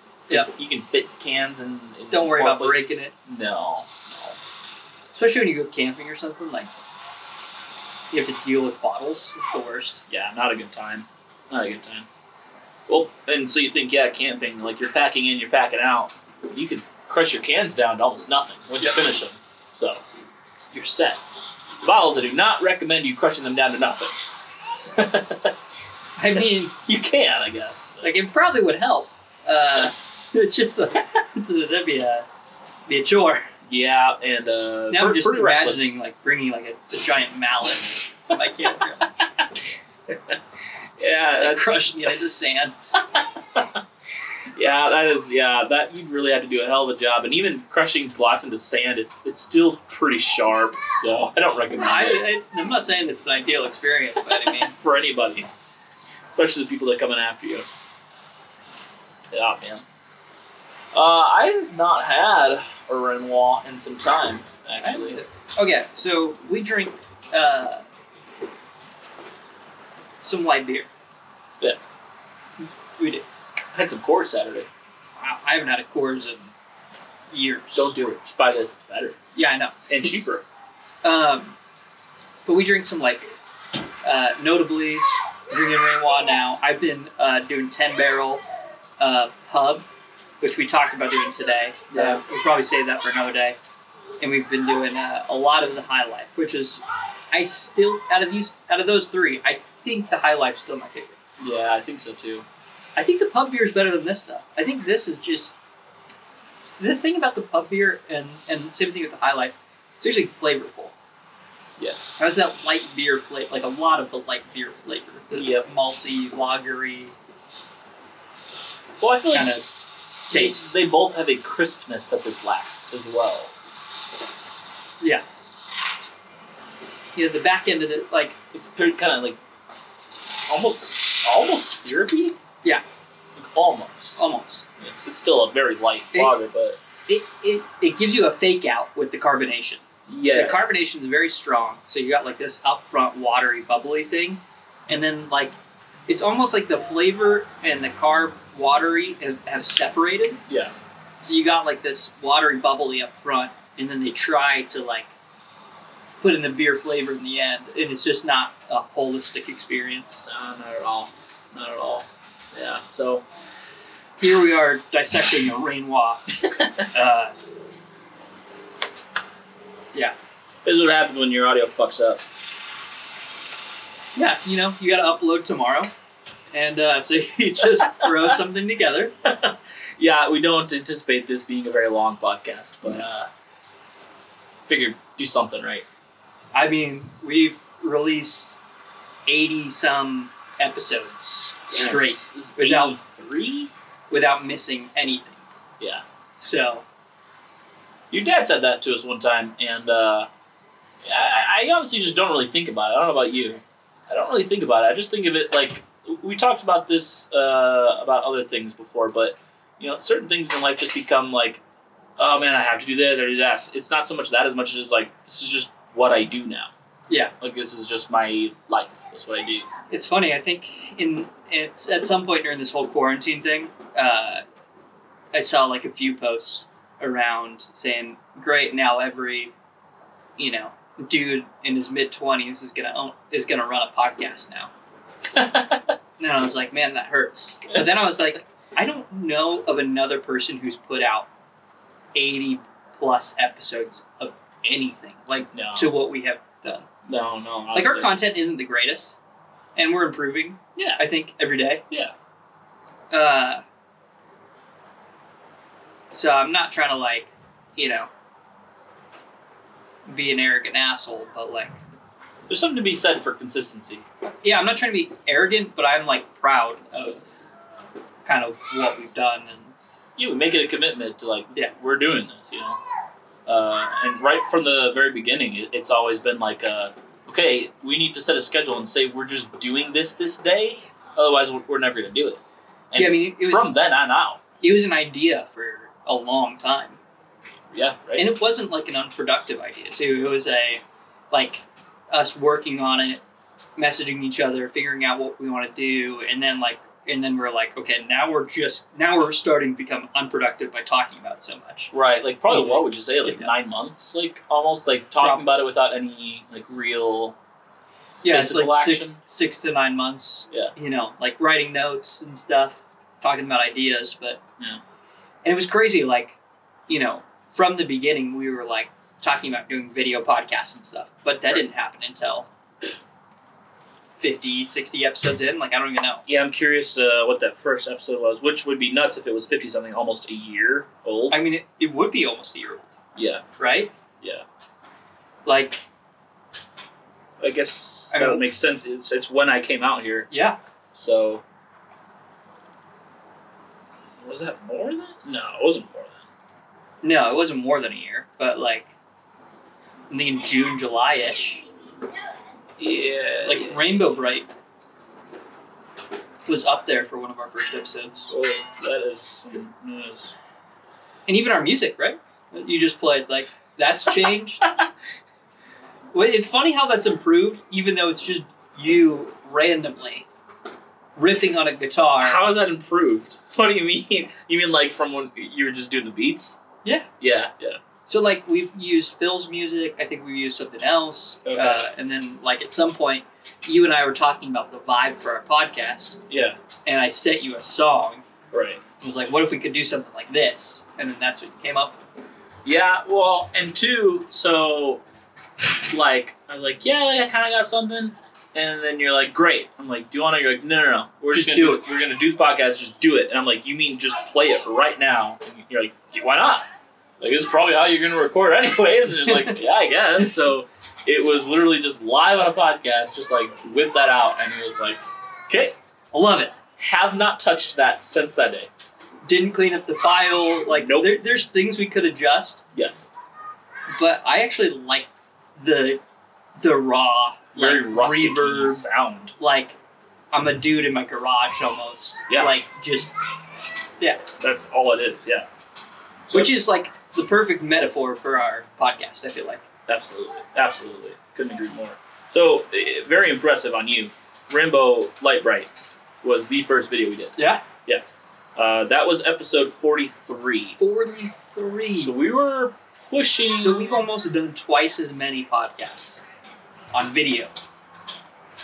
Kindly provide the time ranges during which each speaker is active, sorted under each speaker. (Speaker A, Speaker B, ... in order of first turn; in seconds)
Speaker A: 0.3-4.4, 10.1-12.1, 12.9-20.0, 20.6-21.2, 21.8-24.1, 24.9-25.6, 26.4-28.1, 33.7-36.0, 41.0-42.0, 43.5-43.8, 44.5-52.2, 54.5-55.5, 56.3-57.6, 59.3-59.8, 60.9-65.2, 73.7-74.7, 77.7-79.2, 79.9-80.5, 91.9-92.2, 101.4-102.5, 115.3-115.7, 119.0-119.6, 120.3-123.5, 128.5-129.4, 130.5-132.4, 133.4-134.2, 134.8-136.8, 140.1-140.6, 150.5-150.7, 160.2-163.2, 170.6-172.2, 179.2-183.3, 184.7-185.8, 191.7-193.7, 198.1-200.3, 201.0-211.6, 212.2-216.7, 217.4-219.7, 235.3-235.9, 245.5-246.0, 247.1-248.2, 262.5-264.0, 270.2-272.8, 273.5-282.4, 282.9-284.4, 287.7-288.3, 301.9-307.4, 308.2-309.2, 326.3-331.4, 333.1-333.4, 337.4-340.3, 340.9-341.4, 344.2-346.2, 352.8-353.9, 358.3-360.3, 372.2-376.6, 377.2-377.8, 381.4-381.9, 386.3-386.6, 388.5-388.8, 392.6-395.0, 395.9-406.7, 407.2-415.8, 416.8-418.7, 420.7-421.2, 422.7-423.1, 427.6-429.3, 432.3-432.5, 434.4-435.5, 436.3-436.6, 439.9-445.7, 446.2-448.0, 448.6-450.8, 452.0-454.0
Speaker B: 2.1-3.1, 5.1-6.7, 8.1-10.0, 26.2-26.7, 28.0-32.2, 32.9-33.5, 34.9-39.1, 41.4-43.0, 51.8-54.9, 64.8-67.8, 70.2-70.9, 72.6-73.2, 75.2-76.5, 77.3-77.9, 79.3-79.8, 81.0-81.6, 82.5-83.3, 84.0-88.4, 89.0-89.8, 90.4-93.6, 94.2-101.2, 103.0-105.5, 106.8-110.9, 112.2-117.1, 119.3-119.6, 120.3-120.7, 127.1-128.4, 134.2-134.7, 137.1-145.5, 146.1-150.4, 151.2-155.1, 156.2-160.2, 164.2-167.3, 174.2-175.9, 176.5-179.1, 186.5-188.6, 189.3-193.0, 194.1-195.4, 196.4-196.8, 219.9-224.4, 225.3-229.5, 230.4-234.7, 236.2-241.3, 242.1-246.9, 247.7-249.2, 249.8-251.8, 253.1-253.6, 256.1-258.1, 260.1-261.8, 264.2-267.3, 268.2-269.7, 283.0-283.7, 284.6-287.0, 288.1-293.2, 293.8-301.9, 302.5-303.5, 305.2-305.5, 308.2-314.4, 315.4-316.4, 316.9-322.5, 324.2-326.2, 331.3-332.9, 333.6-333.9, 335.4-335.8, 338.1-338.4, 340.3-340.6, 347.0-348.9, 350.1-351.6, 353.5-354.5, 356.5-358.3, 361.3-364.6, 366.1-370.3, 371.1-372.5, 378.1-386.2, 386.9-388.2, 389.0-392.0, 401.3-401.8, 416.1-416.5, 419.2-422.6, 423.9-426.0, 426.6-428.9, 429.4-429.8, 430.3-433.1, 436.3-439.6, 447.4-447.6, 450.8-452.1, 453.6-456.2, 456.9-457.5